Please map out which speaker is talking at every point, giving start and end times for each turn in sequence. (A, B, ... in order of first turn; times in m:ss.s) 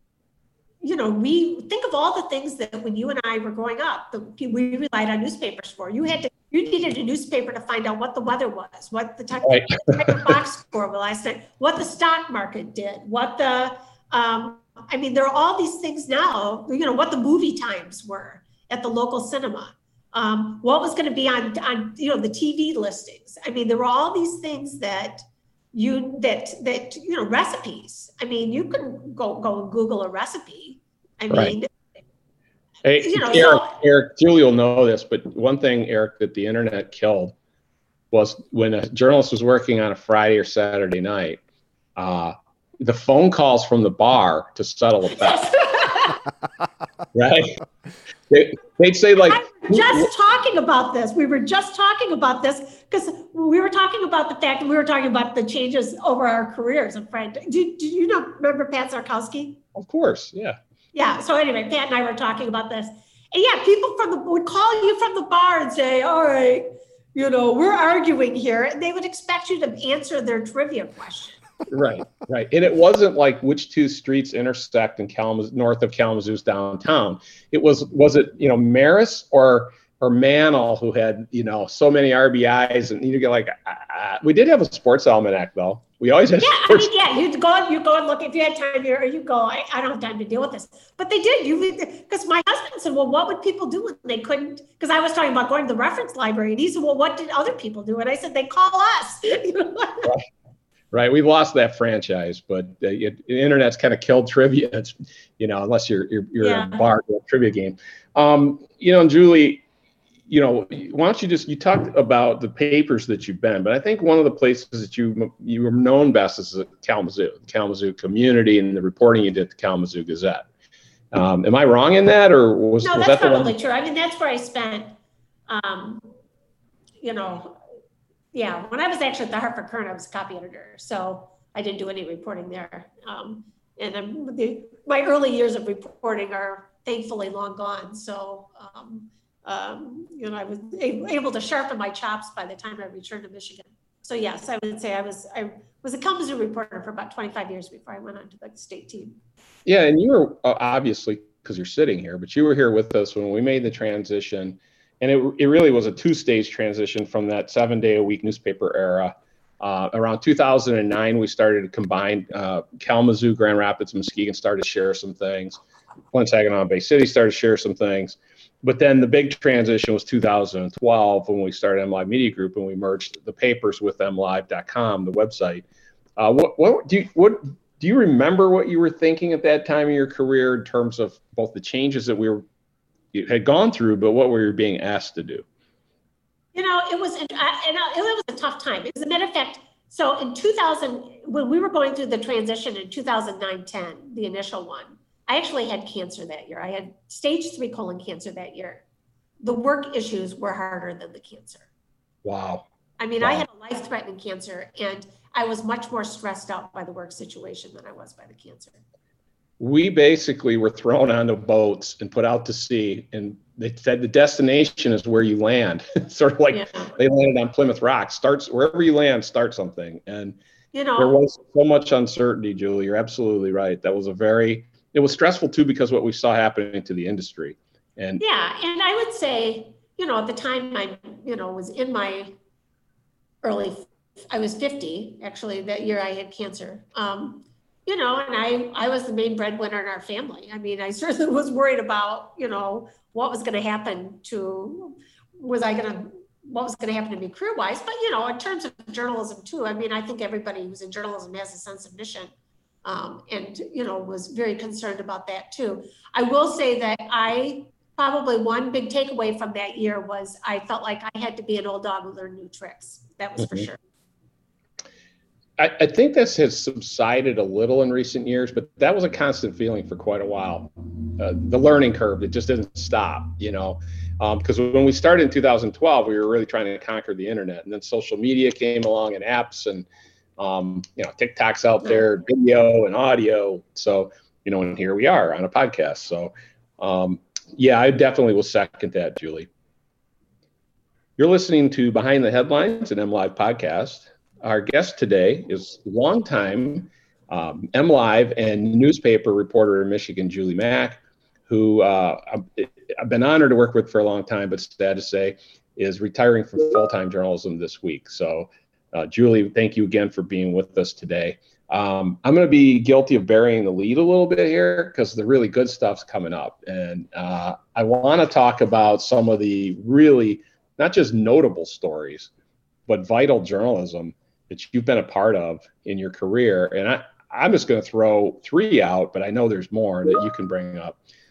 0:00.8-0:31.7 A
0:09.4-0:10.4 B
0:32.8-0:37.4 B
0:33.0-0:33.8 A
0:38.1-0:41.4 B
0:42.0-0:45.5 B
0:45.2-0:46.2 A
0:47.1-0:47.6 B
0:48.3-0:50.1 B
0:49.2-0:59.6 A
0:59.8-1:00.6 B
1:00.9-1:11.4 A
1:11.7-1:27.0 B
1:26.4-1:40.1 A
1:40.9-1:49.6 B
1:46.4-1:46.9 A
1:50.3-2:00.5 B
2:01.1-2:03.5 B
2:02.8-2:05.0 A
2:05.5-2:06.1 A
2:07.0-2:07.6 A
2:08.3-2:29.2 A
2:29.7-2:45.6 B
2:46.1-2:55.7 B
2:56.2-3:02.4 B
3:03.1-3:05.4 B
3:06.6-3:18.8 A
3:19.4-3:21.7 A
3:22.2-3:22.7 B
3:23.0-3:28.8 A
3:23.2-3:23.5 B
3:29.6-3:40.4 B
3:36.5-3:36.9 A
3:40.7-3:41.2 A
3:41.0-3:48.2 B
3:48.2-3:52.3 A
3:53.4-4:12.3 A
4:12.8-4:23.8 A
4:23.4-4:23.7 B
4:25.6-4:39.9 B
4:40.4-4:49.5 B
4:51.2-5:22.3 B
5:22.9-5:31.0 B